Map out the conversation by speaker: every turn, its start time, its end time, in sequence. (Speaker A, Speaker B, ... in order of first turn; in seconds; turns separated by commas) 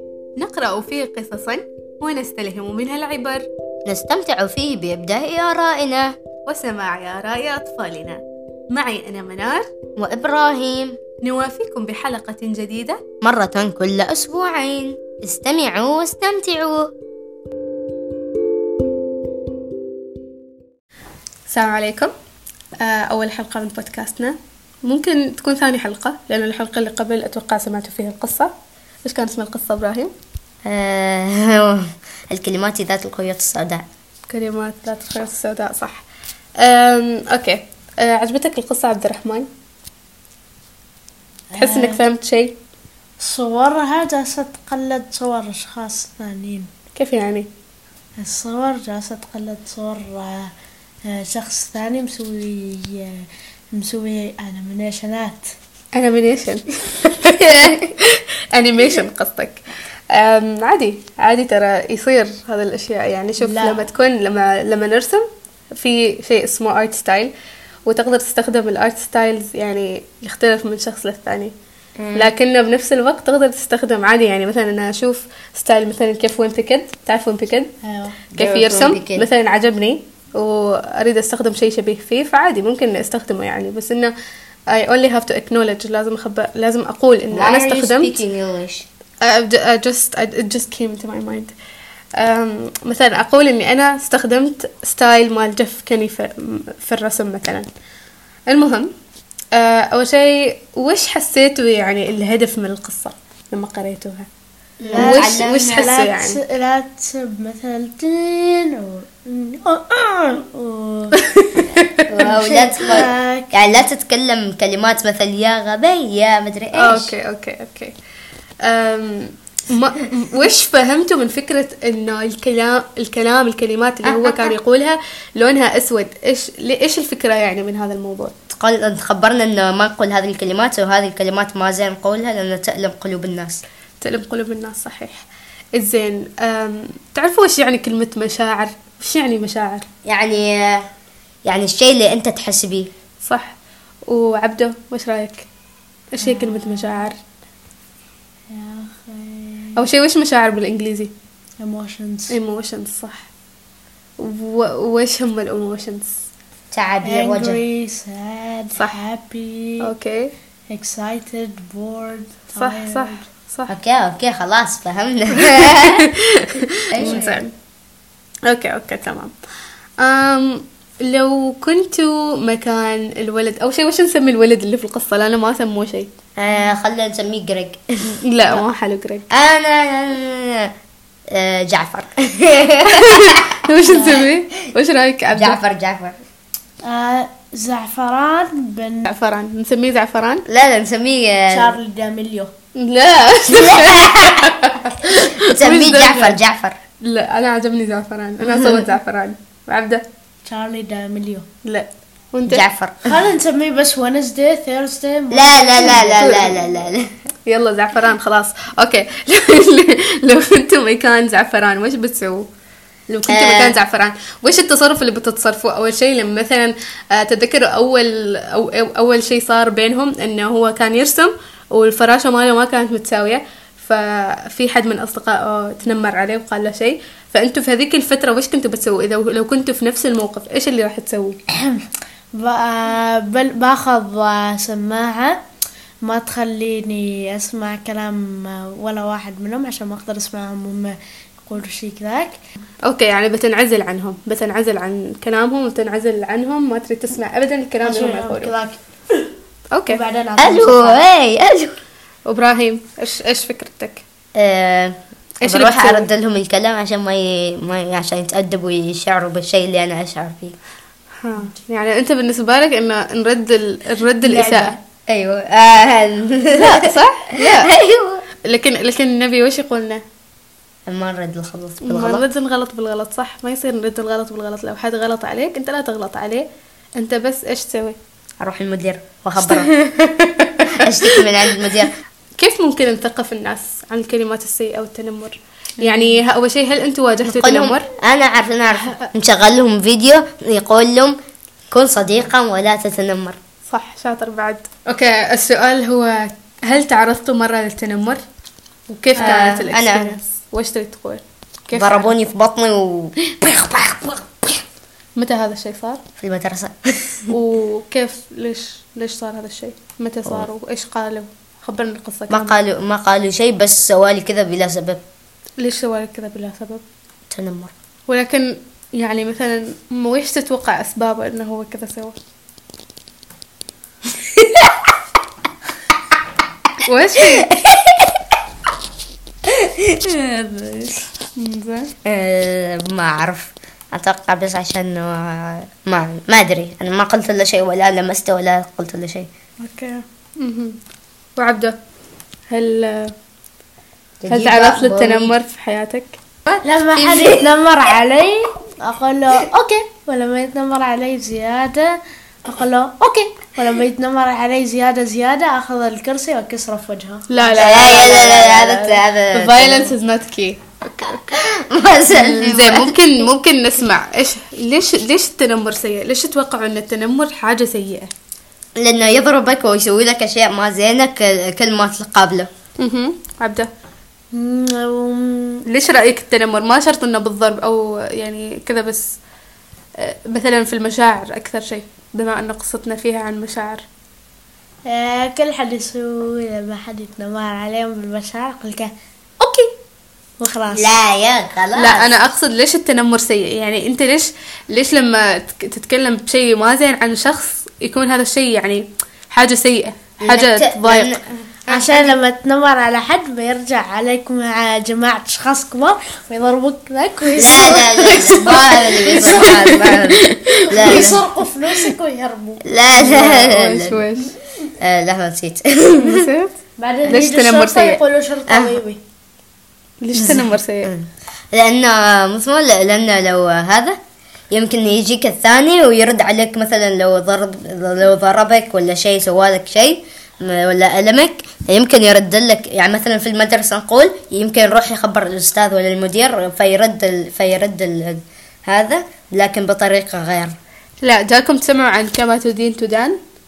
Speaker A: 0.4-3.4, Speaker B: 3.9-6.1, Speaker A: 6.5-8.2, Speaker A: 8.7-9.7, Speaker B: 10.0-11.0, Speaker A: 11.2-13.0, Speaker B: 13.2-16.9, Speaker A: 21.5-22.1, Speaker A: 22.8-28.5, Speaker A: 29.0-30.1, Speaker B: 30.6-33.8, Speaker A: 34.3-36.0, Speaker A: 36.6-39.5, Speaker C: 41.5-42.0, Speaker A: 41.6-42.5, Speaker C: 43.2-46.7, Speaker A: 46.9-47.5, Speaker C: 48.2-50.5, Speaker C: 51.1-55.5, Speaker A: 55.9-67.3, Speaker C: 63.4-63.8, Speaker A: 67.8-71.5, Speaker B: 72.0-72.3, Speaker A: 72.1-77.7, Speaker C: 77.8-78.3, Speaker A: 78.3-84.1, Speaker B: 78.4-79.3, Speaker A: 84.7-88.2, Speaker B: 87.3-88.8, Speaker A: 89.2-91.5, Speaker A: 92.2-97.7, Speaker A: 98.5-98.9, Speaker A: 99.5-104.3, Speaker B: 104.8-105.9, Speaker A: 104.9-106.4, Speaker C: 104.9-113.7, Speaker A: 111.2-112.0, Speaker B: 112.1-117.1, Speaker A: 116.7-117.9, Speaker A: 118.6-128.3, Speaker B: 124.0-124.5, Speaker B: 128.5-133.6, Speaker A: 134.0-139.8, Speaker B: 140.0-140.8, Speaker B: 141.4-142.9, Speaker A: 143.2-143.5, Speaker A: 144.1-145.5, Speaker A: 146.1-147.2, Speaker C: 146.2-147.1, Speaker C: 148.5-149.8, Speaker A: 149.8-151.1, Speaker C: 151.6-152.3, Speaker A: 152.3-153.3, Speaker A: 154.2-156.1, Speaker B: 156.7-157.6, Speaker C: 157.0-159.9, Speaker A: 159.8-160.3, Speaker C: 160.7-163.2, Speaker A: 162.6-163.7, Speaker B: 163.7-166.1, Speaker A: 165.5-167.5, Speaker B: 166.9-167.3, Speaker C: 167.0-167.4, Speaker A: 168.5-169.3, Speaker A: 170.0-176.1, Speaker B: 176.4-177.8, Speaker A: 178.1-179.2, Speaker B: 179.3-180.7, Speaker B: 181.3-184.4, Speaker A: 182.9-185.6, Speaker C: 183.9-184.2, Speaker B: 185.3-186.2, Speaker C: 186.8-189.1, Speaker A: 189.1-190.4, Speaker B: 190.5-191.7, Speaker C: 191.5-192.5, Speaker A: 192.8-196.4, Speaker B: 193.5-194.6, Speaker B: 195.1-196.8, Speaker A: 197.0-200.0, Speaker C: 200.4-201.4, Speaker A: 201.6-202.6, Speaker B: 202.5-203.1, Speaker C: 203.0-206.3, Speaker B: 205.3-207.1, Speaker A: 205.8-206.6, Speaker A: 207.4-212.4, Speaker A: 213.1-231.4, Speaker B: 213.3-213.8, Speaker C: 231.5-235.4, Speaker C: 236.0-242.4, Speaker A: 242.8-248.5, Speaker C: 247.8-249.3, Speaker A: 249.7-250.0, Speaker C: 249.9-251.0, Speaker B: 250.4-251.8, Speaker A: 252.3-254.0, Speaker B: 254.3-260.6, Speaker A: 255.4-256.1, Speaker A: 261.2-264.8, Speaker C: 264.2-264.8, Speaker B: 265.1-268.2, Speaker A: 266.5-267.7, Speaker A: 268.4-270.0, Speaker B: 270.9-272.2, Speaker A: 271.8-276.4, Speaker A: 277.0-278.0, Speaker B: 278.4-281.9, Speaker A: 281.1-281.7, Speaker A: 282.4-287.9, Speaker B: 285.8-286.2, Speaker B: 287.2-291.1, Speaker A: 288.8-289.1, Speaker B: 291.7-293.4, Speaker A: 293.7-298.2, Speaker A: 298.9-302.1, Speaker C: 299.1-299.6, Speaker B: 299.2-300.1, Speaker B: 301.7-304.6, Speaker A: 305.1-306.0, Speaker B: 306.2-307.3, Speaker A: 307.3-312.6, Speaker B: 312.3-315.0, Speaker A: 315.6-316.8, Speaker B: 317.3-317.7, Speaker A: 318.1-322.2, Speaker B: 324.2-324.7, Speaker A: 326.8-327.5, Speaker B: 327.5-328.2, Speaker B: 329.5-331.0, Speaker A: 331.4-331.9, Speaker B: 332.0-339.3, Speaker A: 339.6-340.8, Speaker A: 341.4-341.8, Speaker A: 342.5-343.1, Speaker B: 344.2-345.3, Speaker A: 344.3-346.2, Speaker B: 346.5-347.4, Speaker C: 346.6-358.3, Speaker A: 357.3-361.4, Speaker B: 357.5-359.9, Speaker B: 361.3-363.0, Speaker A: 362.1-368.1, Speaker B: 368.8-372.5, Speaker A: 372.8-373.7, Speaker C: 374.3-375.6, Speaker A: 375.7-379.2, Speaker A: 380.0-383.8, Speaker C: 384.9-388.9, Speaker A: 389.4-389.7, Speaker C: 390.4-390.9, Speaker B: 390.7-392.1, Speaker A: 391.7-401.1, Speaker B: 400.2-402.1, Speaker C: 401.7-412.6, Speaker B: 407.4-411.2, Speaker B: 412.6-414.0, Speaker A: 412.9-414.3, Speaker B: 414.8-416.3, Speaker A: 416.0-416.5, Speaker C: 416.8-419.0, Speaker A: 417.1-418.0, Speaker B: 418.5-418.8, Speaker A: 420.0-420.9, Speaker B: 420.1-424.0, Speaker B: 424.5-440.6, Speaker A: 441.0-443.2